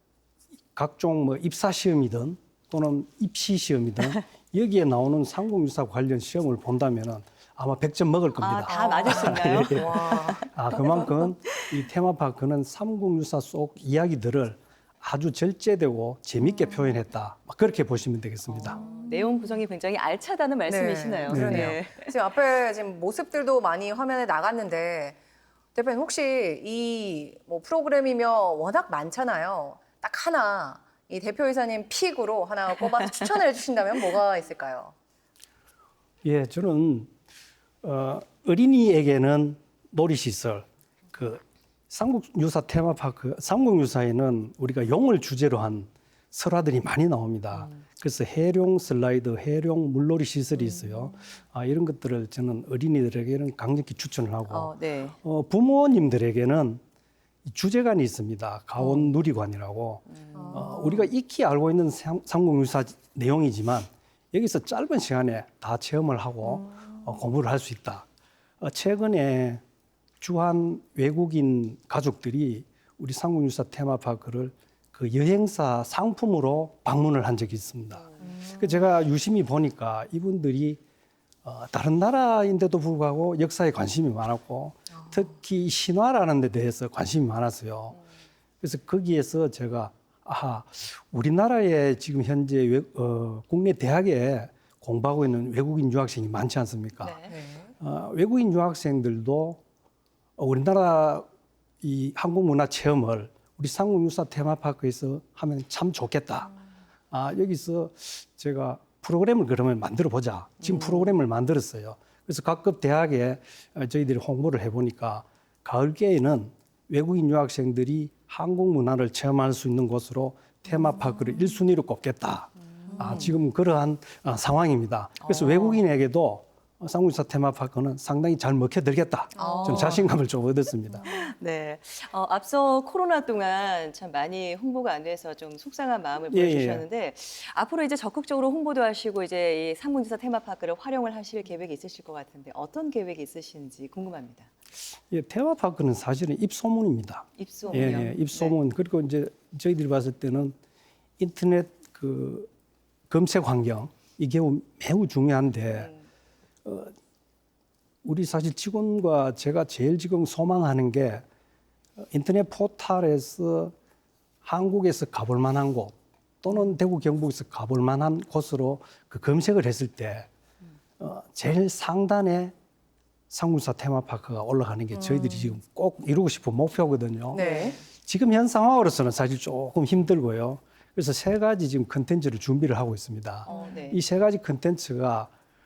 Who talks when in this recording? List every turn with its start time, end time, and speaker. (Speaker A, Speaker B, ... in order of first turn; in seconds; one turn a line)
Speaker A: 0.7-18.8
Speaker B: 8.4-11.7
Speaker C: 8.7-10.5
Speaker C: 16.4-16.8
Speaker B: 18.5-22.1
Speaker C: 18.8-19.4
Speaker C: 20.7-25.2
Speaker A: 21.3-21.8
Speaker C: 25.7-34.9
Speaker A: 36.2-37.1
Speaker A: 37.8-56.8
Speaker B: 47.5-47.8
Speaker B: 54.5-55.2
Speaker A: 57.5-68.0
Speaker B: 58.8-59.1
Speaker B: 60.1-60.9
Speaker C: 60.5-60.9
Speaker A: 68.6-69.6
Speaker A: 70.2-80.8
Speaker B: 77.9-78.3
Speaker C: 78.2-78.8
Speaker A: 81.4-88.0
Speaker A: 88.6-97.2
Speaker B: 97.0-97.4
Speaker C: 97.3-97.7
Speaker A: 97.8-99.6
Speaker A: 100.4-101.2
Speaker A: 101.8-106.5
Speaker A: 107.1-131.1
Speaker B: 110.6-111.2
Speaker B: 122.8-123.3
Speaker B: 125.2-125.8
Speaker B: 129.3-130.1
Speaker C: 129.4-129.7
Speaker B: 131.0-144.5
Speaker A: 136.3-136.8
Speaker A: 145.1-150.5
Speaker B: 147.4-148.5
Speaker A: 151.2-152.5
Speaker A: 153.1-155.9
Speaker B: 155.8-156.0
Speaker A: 156.6-156.9
Speaker A: 158.0-161.2
Speaker A: 162.1-163.7
Speaker A: 164.4-170.3
Speaker A: 171.0-172.5
Speaker A: 173.3-185.3
Speaker C: 174.9-175.6
Speaker C: 177.3-177.8
Speaker B: 177.3-177.8
Speaker B: 183.4-184.0